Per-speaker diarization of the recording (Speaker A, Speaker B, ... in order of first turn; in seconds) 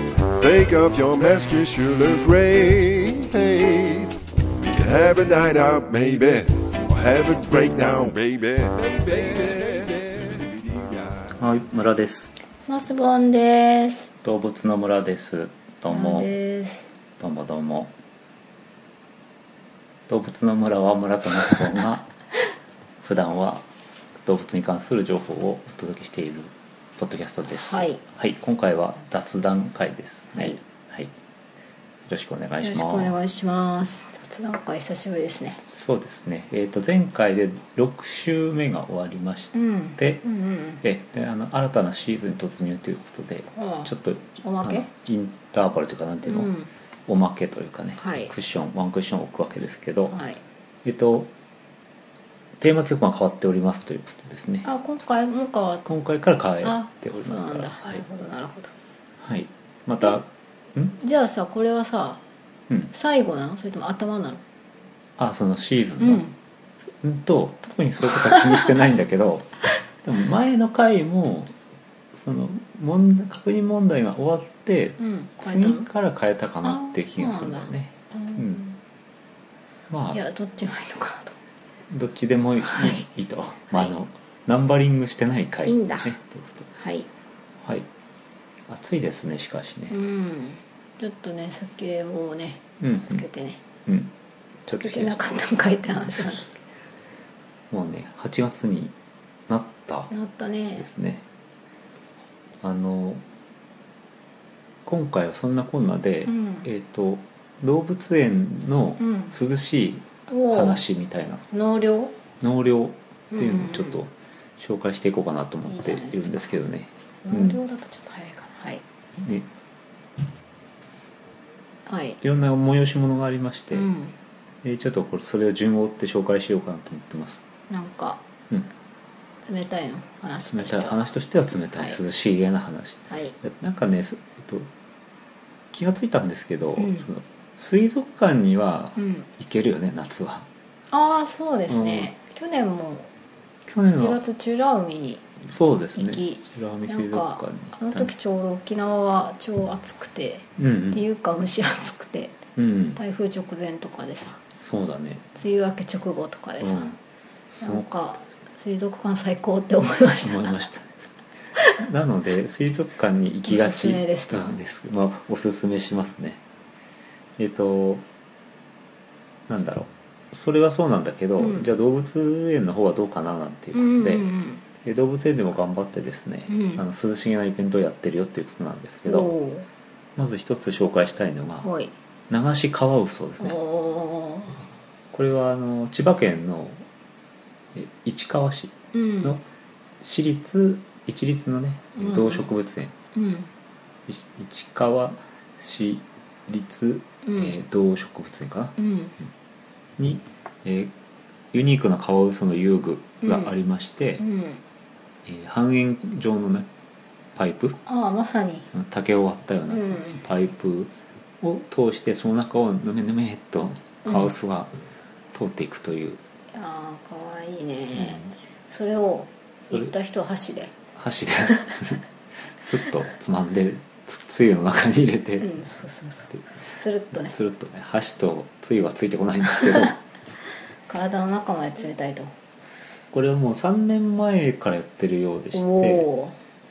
Speaker A: 0.4-11.3
Speaker B: 11.4-12.3, 14.2-16.4, 17.2-17.9, 20.1-22.1, 23.0-23.6, 24.2-31.1, 32.1-33.2, 35.7-40.2, 40.8-46.5, 47.1-50.2, 50.9-51.3, 52.6-54.7, 55.9-58.0, 59.2-61.0, 65.2-66.2, 66.8-71.5, 72.2-78.6, 79.9-80.2, 81.9-86.7, 87.6-87.9, 88.7-90.0, 92.8-93.2, 93.9-94.1, 94.7-95.4, 97.7-98.9, 99.5-100.1, 100.8-101.2, 102.6-103.2, 104.9-111.4, 112.4-117.6, 119.2-119.5, 122.2-123.9, 124.6-127.4, 130.5-134.7, 135.7-140.5, 141.7-142.1, 143.7-144.2, 145.4-148.1, 150.6-151.0, 152.6-153.0, 154.6-155.2, 156.6-157.0, 157.5-158.0, 159.8-160.9, 161.8-166.4, 167.4-168.1, 169.5-174.3, 174.8-179.3, 180.2-181.7, 182.3-183.6, 185.1-186.8, 187.7-189.4, 190.0-192.9, 194.1-199.3, 200.0-200.9, 201.5-204.2, 205.3-206.7, 207.4-207.8, 208.7-214.7, 215.3-216.2, 217.9-218.3, 220.9-222.0, 222.6-225.5, 227.1-230.0, 233.1-236.1
Speaker C: 12.7-14.1, 15.9-16.9, 27.5-28.0, 32.6-35.6, 39.5-40.8, 43.5-44.9, 46.2-46.7, 48.0-48.3, 50.1-50.4, 54.6-55.9, 56.6-58.7, 61.0-62.2, 62.9-64.4, 66.0-66.3, 75.0-75.9, 76.6-78.8, 80.1-81.4, 82.6-83.0, 85.7-86.2, 86.7-87.1, 89.9-93.6, 94.7-96.6, 100.1-100.9, 106.3-106.7, 109.0-109.3, 110.3-110.8, 111.5-112.2, 113.3-114.0, 115.7-116.5, 117.2-118.8, 121.9-122.2, 123.7-124.2, 127.7-128.2, 129.4-131.0, 131.7-132.0, 133.1-133.4, 136.8-137.1, 139.0-139.3, 140.9-143.1, 143.8-145.3, 145.9-152.4, 152.9-154.4, 155.3-156.9, 157.6-160.7, 163.4-164.6, 171.4-171.7, 173.7-174.6, 176.5-176.8, 179.1-179.7, 181.6-181.9, 183.4-184.6, 188.9-189.4, 192.0-192.5, 193.1-193.5, 197.2-197.6, 198.8-199.1, 203.2-203.5, 204.2-204.6, 207.8-208.7, 209.7-210.2, 214.1-214.3, 216.5-220.7, 225.4-227.4, 230.9-232.3, 235.5-236.4